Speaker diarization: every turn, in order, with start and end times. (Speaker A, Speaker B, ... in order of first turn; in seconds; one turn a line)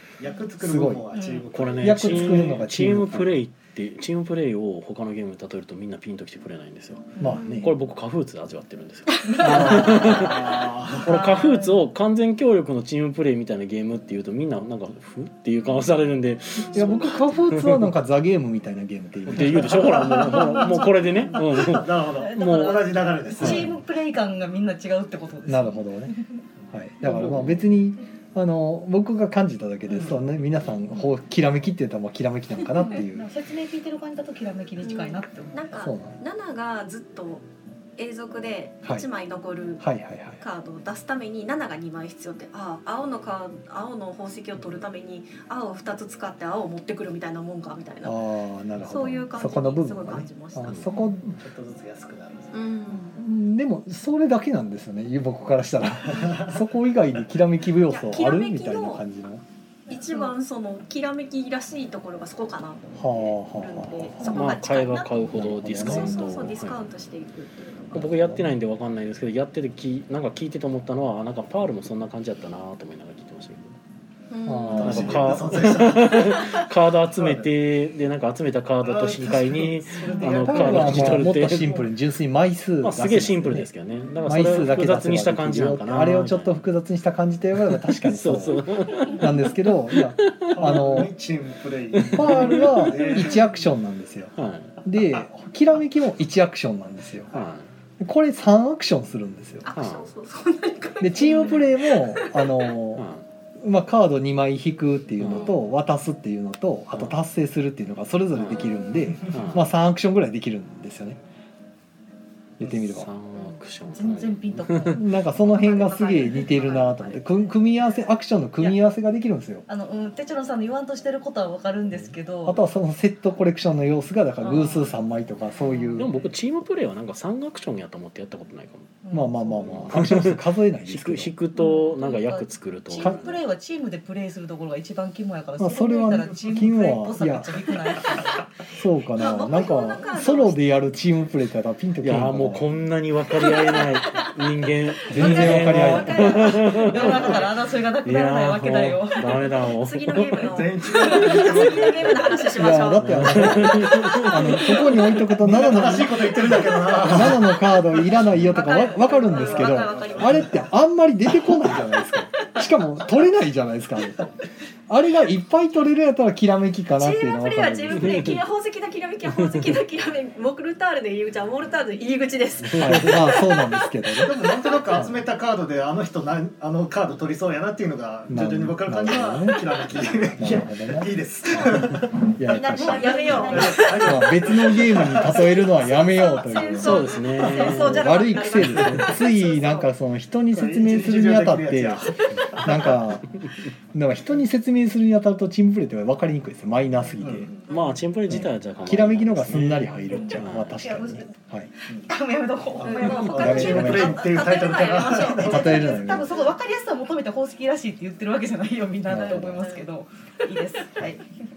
Speaker A: 0.2-2.6
Speaker B: 0.6-1.1
Speaker C: 1.1-1.5
Speaker D: 1.5-17.9
Speaker B: 1.8-3.4
Speaker B: 7.2-7.7
Speaker E: 7.2-7.7
Speaker C: 9.2-10.4
Speaker A: 9.4-11.1
Speaker C: 11.0-11.8
Speaker B: 16.7-20.5
Speaker D: 19.3-23.7
Speaker A: 19.7-23.8
Speaker C: 20.3-20.8
Speaker C: 22.1-26.3
Speaker B: 25.5-26.1
Speaker B: 26.7-33.3
Speaker D: 27.0-27.6
Speaker C: 32.8-35.8
Speaker E: 34.8-37.5
Speaker B: 35.8-36.2
Speaker E: 38.0-39.9
Speaker B: 39.8-40.4
Speaker E: 40.4-48.2
Speaker B: 48.0-51.3
Speaker E: 48.8-51.0
Speaker C: 50.9-51.2
Speaker A: 51.3-52.7
Speaker E: 52.5-53.1
Speaker C: 52.9-53.2
Speaker B: 53.2-59.4
Speaker A: 56.0-56.6
Speaker E: 57.8-59.0
Speaker E: 59.9-68.2
Speaker C: 59.9-60.3
Speaker B: 63.0-64.2
Speaker C: 64.2-64.5
Speaker D: 64.2-66.8
Speaker B: 65.3-66.2
Speaker D: 67.9-73.8
Speaker B: 68.2-68.4
Speaker E: 74.3-75.1
Speaker B: 74.5-75.3
Speaker A: 74.7-77.5
Speaker D: 74.7-81.9
Speaker E: 76.2-76.7
Speaker A: 78.8-81.2
Speaker E: 80.0-80.9
Speaker C: 80.0-80.3
Speaker B: 80.2-83.7
Speaker D: 82.8-86.6
Speaker B: 84.2-91.1
Speaker D: 87.6-91.0
Speaker A: 90.5-93.5
Speaker D: 91.9-92.9
Speaker B: 92.1-97.3
Speaker D: 94.4-94.8
Speaker D: 97.3-97.7
Speaker B: 98.0-99.7
Speaker E: 99.6-102.7
Speaker D: 99.7-100.1
Speaker B: 101.0-103.1
Speaker D: 103.0-103.2
Speaker B: 103.6-111.2
Speaker D: 105.2-105.6
Speaker D: 106.9-107.2
Speaker E: 108.6-109.3
Speaker D: 109.2-109.7
Speaker B: 112.6-113.1
Speaker D: 112.6-115.0
Speaker C: 113.8-115.0
Speaker B: 114.9-119.7
Speaker E: 115.4-117.5
Speaker C: 119.7-122.6
Speaker B: 122.5-126.2
Speaker C: 124.4-124.9
Speaker C: 125.6-126.1
Speaker D: 126.0-129.0
Speaker C: 129.0-129.9
Speaker B: 129.1-131.3
Speaker D: 129.7-133.4
Speaker C: 131.6-138.4
Speaker B: 133.0-133.2
Speaker B: 135.6-137.5
Speaker B: 138.7-142.8
Speaker C: 139.2-140.1
Speaker E: 139.2-140.7
Speaker D: 142.0-151.9
Speaker E: 143.4-144.3
Speaker B: 145.1-146.5
Speaker E: 145.1-147.5
Speaker C: 146.6-149.7
Speaker E: 149.6-155.0
Speaker A: 150.4-152.3
Speaker C: 151.0-151.4
Speaker B: 152.6-164.3
Speaker D: 153.0-154.8
Speaker A: 155.3-157.6
Speaker D: 158.3-158.6
Speaker E: 158.4-160.5
Speaker A: 159.1-160.7
Speaker B: 164.9-168.4
Speaker E: 166.9-173.5
Speaker D: 167.9-168.4
Speaker D: 169.2-169.8
Speaker D: 172.6-173.4
Speaker B: 172.8-174.4
Speaker A: 174.1-182.3
Speaker B: 174.9-175.2
Speaker B: 178.3-181.1
Speaker B: 182.4-187.1
Speaker E: 182.5-189.9
Speaker C: 182.7-184.0
Speaker A: 182.9-185.6
Speaker A: 186.6-186.8
Speaker D: 186.8-189.2
Speaker B: 187.6-193.4
Speaker A: 190.5-193.1
Speaker B: 193.9-197.5
Speaker A: 197.2-197.7
Speaker D: 197.7-200.8
Speaker B: 198.3-201.7
Speaker A: 198.9-200.3
Speaker C: 200.1-211.2
Speaker A: 202.8-206.2
Speaker E: 202.8-205.5
Speaker B: 203.0-204.3
Speaker B: 205.4-206.3
Speaker B: 209.1-209.7
Speaker E: 209.6-209.9